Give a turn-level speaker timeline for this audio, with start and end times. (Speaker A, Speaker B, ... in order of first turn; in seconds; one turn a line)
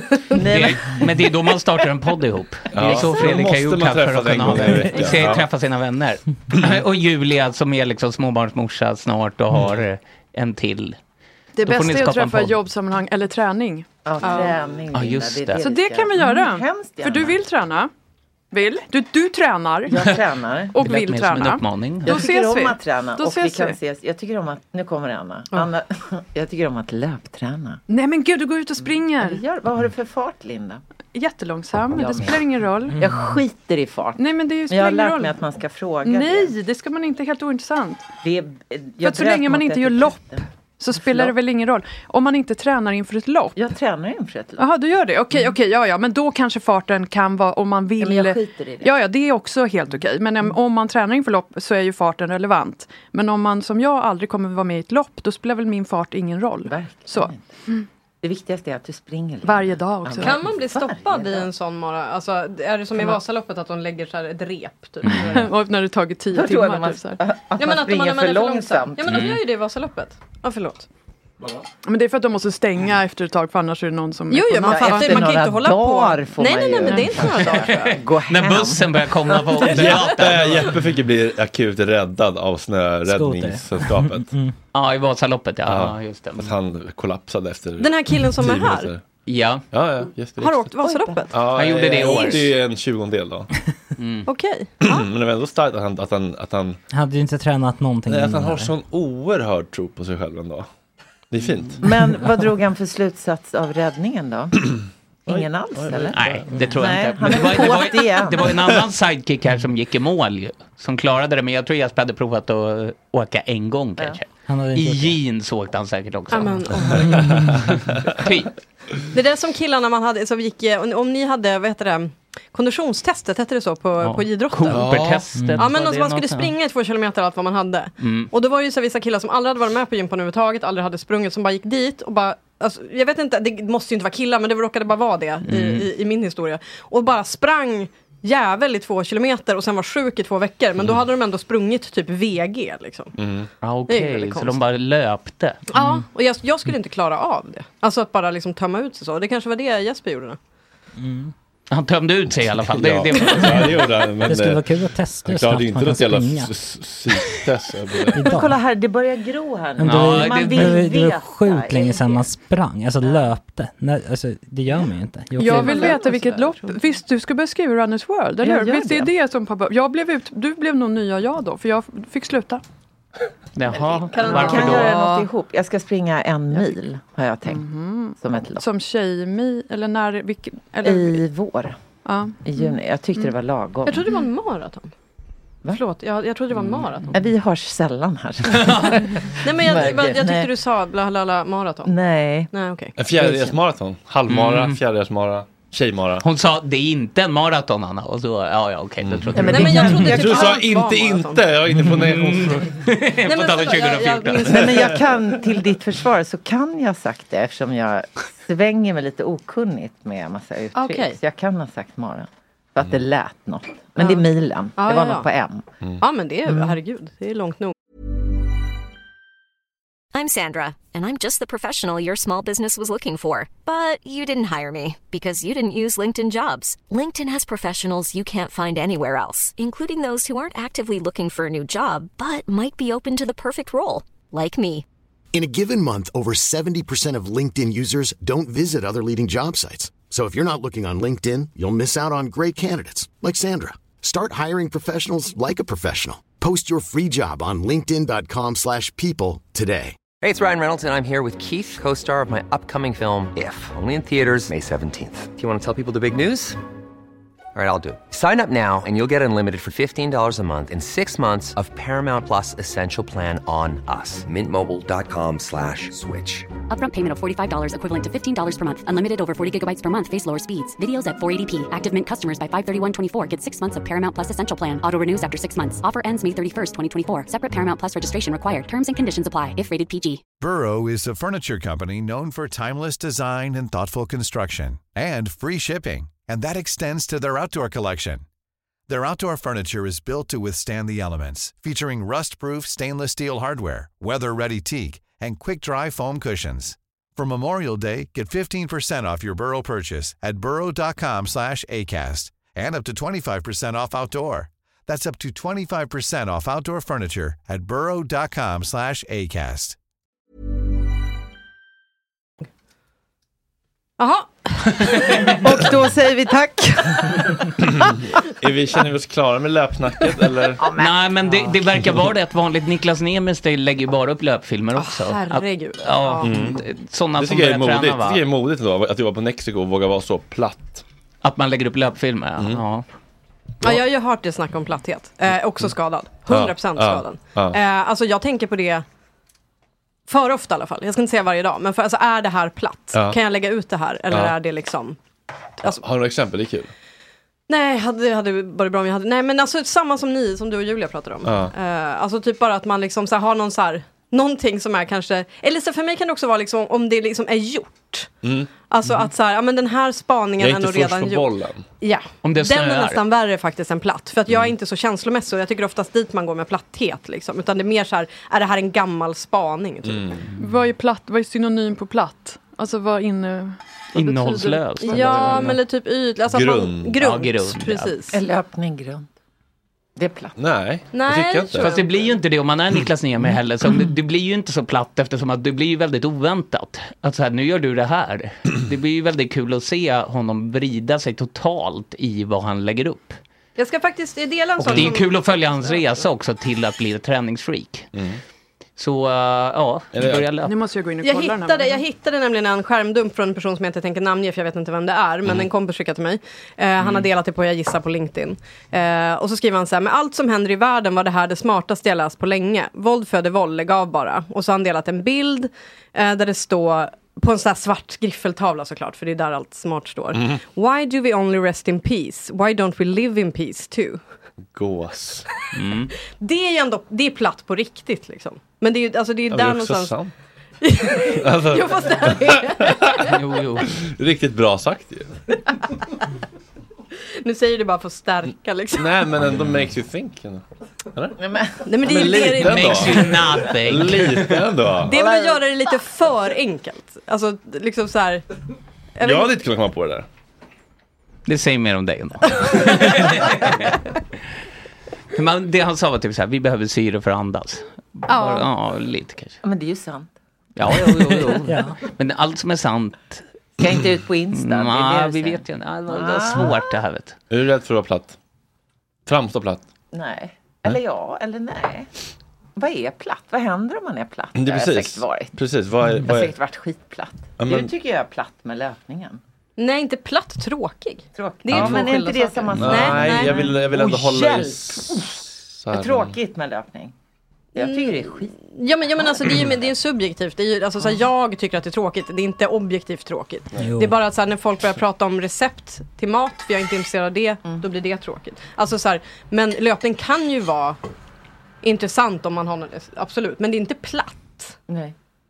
Speaker A: 0.3-1.1
Speaker B: 0.4-11.0
Speaker C: 2.7-5.5
Speaker D: 11.5-14.6
Speaker B: 11.6-12.6
Speaker A: 14.0-17.4
Speaker B: 14.9-15.6
Speaker D: 15.5-17.9
Speaker D: 18.5-20.1
Speaker A: 19.9-20.8
Speaker D: 20.7-23.8
Speaker B: 20.8-22.2
Speaker A: 22.0-27.8
Speaker D: 27.9-29.4
Speaker A: 28.8-30.8
Speaker D: 31.1-33.0
Speaker A: 31.9-36.5
Speaker D: 34.2-35.4
Speaker D: 36.0-38.1
Speaker A: 38.2-41.3
Speaker D: 39.0-43.6
Speaker A: 43.5-44.6
Speaker D: 44.6-57.8
Speaker A: 48.0-48.9
Speaker A: 56.6-57.5
Speaker A: 58.2-61.5
Speaker D: 59.4-60.5
Speaker E: 60.2-65.5
Speaker B: 65.0-65.4
Speaker D: 65.2-67.2
Speaker A: 66.3-69.2
Speaker E: 67.6-70.9
Speaker B: 69.0-69.4
Speaker D: 71.8-75.4
Speaker E: 74.3-77.8
Speaker A: 74.6-79.7
Speaker D: 76.8-77.8
Speaker B: 77.3-80.8
Speaker C: 79.6-84.3
Speaker F: 83.1-84.5
Speaker B: 84.7-86.5
Speaker C: 85.7-89.0
Speaker E: 87.8-88.9
Speaker B: 89.2-89.7
Speaker C: 89.7-90.8
Speaker E: 90.4-91.3
Speaker A: 90.8-91.3
Speaker C: 91.3-93.5
Speaker B: 91.4-92.5
Speaker E: 92.0-92.3
Speaker B: 94.0-94.3
Speaker E: 94.2-95.0
Speaker C: 94.8-96.8
Speaker F: 96.9-98.7
Speaker C: 98.1-100.7
Speaker C: 101.3-101.9
Speaker A: 101.8-104.6
Speaker C: 105.3-106.7
Speaker A: 105.3-108.5
Speaker B: 106.1-118.5
Speaker F: 114.5-115.2
Speaker E: 116.3-117.1
Speaker F: 117.0-117.5
Speaker C: 117.1-117.5
Speaker E: 119.1-124.8
Speaker B: 124.0-126.5
Speaker C: 124.7-125.2
Speaker F: 125.3-125.7
Speaker E: 125.6-143.1
Speaker B: 128.0-128.3
Speaker B: 135.4-135.9
Speaker C: 143.2-143.5
Speaker B: 143.6-145.6
Speaker E: 143.9-144.6
Speaker E: 145.7-150.4
Speaker F: 151.0-151.3
Speaker B: 151.7-153.8
Speaker C: 152.7-154.7
Speaker F: 154.2-156.5
Speaker C: 155.2-158.4
Speaker F: 158.1-158.5
Speaker A: 158.2-162.3
Speaker F: 159.8-166.0
Speaker B: 159.8-160.8
Speaker D: 165.4-172.6
Speaker A: 165.4-166.6
Speaker A: 168.4-169.1
Speaker B: 173.5-175.0
Speaker A: 173.7-177.7
Speaker E: 173.9-174.8
Speaker D: 174.2-175.3
Speaker D: 177.4-181.2
Speaker A: 178.2-178.6
Speaker A: 180.8-181.8
Speaker D: 182.0-182.7
Speaker A: 182.4-184.1
Speaker E: 183.9-184.9
Speaker E: 185.7-187.1
Speaker A: 186.8-190.5
Speaker B: 188.5-189.1
Speaker E: 189.4-191.9
Speaker A: 191.8-192.5
Speaker E: 192.5-192.9
Speaker C: 192.9-196.2
Speaker A: 193.1-193.6
Speaker B: 194.3-194.8
Speaker B: 196.2-200.2
Speaker C: 199.0-202.7
Speaker A: 199.3-200.5
Speaker E: 199.4-201.4
Speaker B: 201.7-204.7
Speaker E: 203.2-204.7
Speaker C: 204.5-204.9
Speaker A: 204.5-215.6
Speaker E: 210.8-211.2
Speaker E: 214.8-215.3
Speaker E: 216.0-217.7
Speaker G: 220.1-234.8
Speaker H: 235.3-249.9
Speaker I: 250.2-256.6
Speaker I: 257.5-266.5
Speaker J: 266.7-280.2
Speaker K: 280.4-288.2
Speaker K: 288.9-309.8
Speaker E: 314.0-315.6
Speaker B: 314.8-315.5
Speaker A: 315.4-317.1
Speaker C: 317.6-320.6
Speaker B: 320.7-328.2
Speaker E: 324.7-326.3
Speaker C: 326.2-326.6
Speaker C: 327.2-330.8
Speaker B: 331.2-332.9
Speaker E: 333.6-338.8
Speaker C: 336.2-337.6
Speaker E: 340.1-345.0
Speaker C: 342.9-343.2
Speaker C: 345.6-346.7
Speaker E: 347.5-361.3
Speaker C: 351.2-351.5
Speaker C: 358.2-358.5
Speaker C: 360.4-361.6
Speaker E: 361.8-370.1
Speaker B: 362.2-363.0
Speaker C: 369.9-370.2
Speaker D: 370.4-375.6
Speaker B: 373.9-375.6
Speaker E: 374.8-378.1
Speaker C: 376.3-377.0
Speaker B: 377.0-377.9
Speaker A: 378.1-379.1
Speaker A: 380.0-380.3
Speaker C: 380.4-381.7
Speaker E: 380.9-382.1
Speaker B: 381.5-393.2
Speaker E: 393.6-395.8
Speaker B: 394.6-397.9
Speaker C: 394.6-394.9
Speaker C: 397.9-398.2
Speaker B: 398.8-400.5
Speaker C: 399.9-400.3
Speaker D: 400.4-401.8
Speaker E: 401.0-424.0
Speaker C: 420.1-420.4
Speaker C: 424.5-425.2
Speaker B: 425.5-425.9
Speaker E: 426.2-429.9
Speaker C: 429.3-430.1
Speaker E: 430.6-432.8
Speaker C: 431.1-433.1
Speaker B: 433.0-433.7
Speaker C: 433.7-435.1
Speaker E: 437.2-438.9
Speaker C: 438.7-441.1
Speaker A: 441.2-441.7
Speaker E: 441.7-442.8
Speaker C: 441.8-445.0
Speaker B: 441.9-444.5
Speaker E: 444.9-448.2
Speaker A: 444.9-445.4
Speaker E: 449.0-449.3
Speaker C: 449.0-450.1
Speaker B: 451.2-453.8
Speaker B: 455.1-459.4
Speaker A: 459.4-460.1
Speaker B: 460.6-463.2
Speaker F: 461.5-461.8
Speaker A: 463.6-466.6
Speaker B: 464.3-467.2
Speaker C: 467.3-468.1
Speaker C: 469.1-469.6
Speaker A: 469.9-471.9
Speaker A: 472.6-475.3
Speaker C: 474.3-476.4
Speaker A: 476.0-479.2
Speaker C: 477.4-477.7
Speaker E: 479.6-483.4
Speaker A: 481.1-486.9
Speaker C: 481.5-481.9
Speaker C: 482.5-486.1
Speaker A: 487.5-488.4
Speaker E: 487.6-500.8
Speaker A: 489.0-489.6
Speaker F: 493.6-493.9
Speaker E: 501.6-504.6
Speaker A: 504.7-504.9